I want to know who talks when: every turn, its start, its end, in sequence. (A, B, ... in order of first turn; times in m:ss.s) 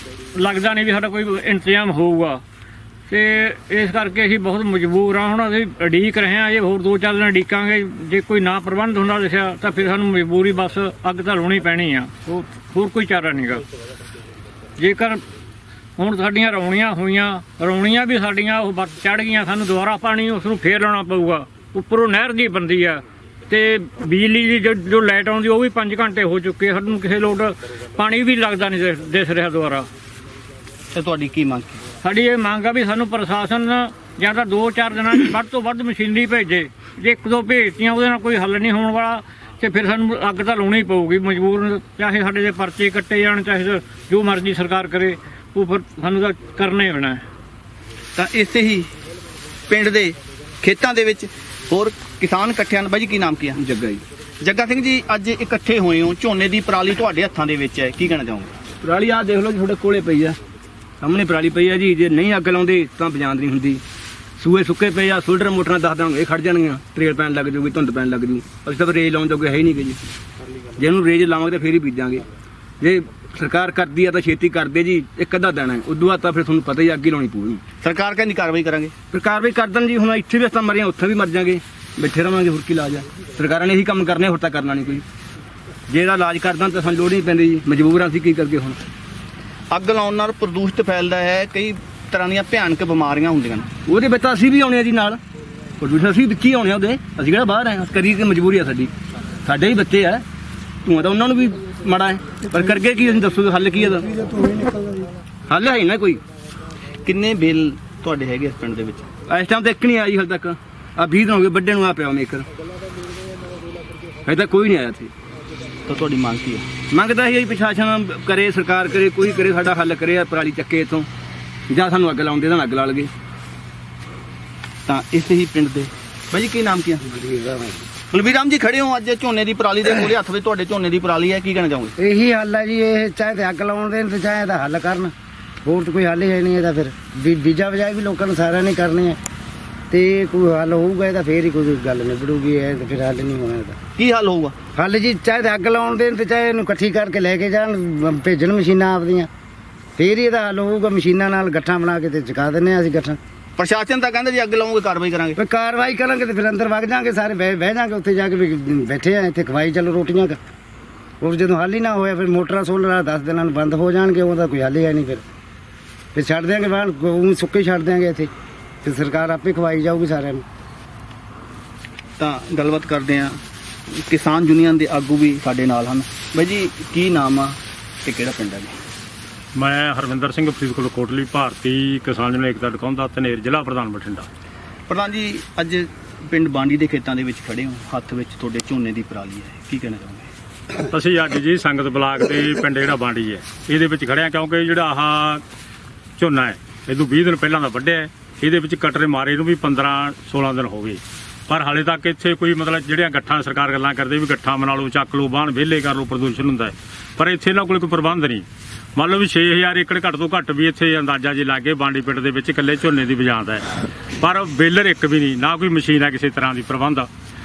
0:00.3-0:02.4 A
0:03.1-0:13.6 A
0:14.8-0:15.2 A
0:16.0-0:29.9 A
0:30.9-0:31.8 B
0:32.0-0:47.2 A
0:48.2-0:48.9 B
0:49.7-0:53.6 B
0:53.6-0:54.0 C
0:54.4-0:58.5 B
0:58.8-1:00.4 C
1:01.0-1:03.8 C
1:04.4-1:10.0 C
1:10.8-1:12.2 C
1:12.8-1:17.6 C
1:17.8-1:18.9 B
1:19.1-1:25.0 C
1:25.9-1:28.8 C
1:29.7-1:33.7 B
1:33.9-1:35.2 C
1:35.8-1:38.9 C
1:39.4-1:40.2 C
1:40.8-1:44.7 C
1:45.5-1:46.2 C
1:47.0-1:49.1 B
1:49.2-1:52.5 C
1:54.2-1:55.1 C
1:55.9-1:56.7 B
1:56.8-2:01.1 C
2:01.7-2:03.1 C
2:04.9-2:07.0 B
2:07.0-2:07.8 D
2:08.1-2:11.9 B
2:12.0-2:15.1 D
2:15.6-2:19.2 D
2:19.9-2:23.8 D
2:24.0-2:24.6 B
2:24.7-2:29.3 D
2:30.0-2:33.2 D
2:33.6-2:35.3 B
2:35.4-2:40.4 D
2:41.2-2:45.2 D
2:46.2-2:48.3 D
2:48.8-2:50.4 D
2:52.2-2:53.4 B
2:54.1-2:58.7 B
2:59.6-3:04.3 E
3:04.9-3:10.3 B
3:10.9-3:15.4 E
3:16.2-3:28.4 E
3:29.0-3:33.6 E
3:34.2-3:37.1 E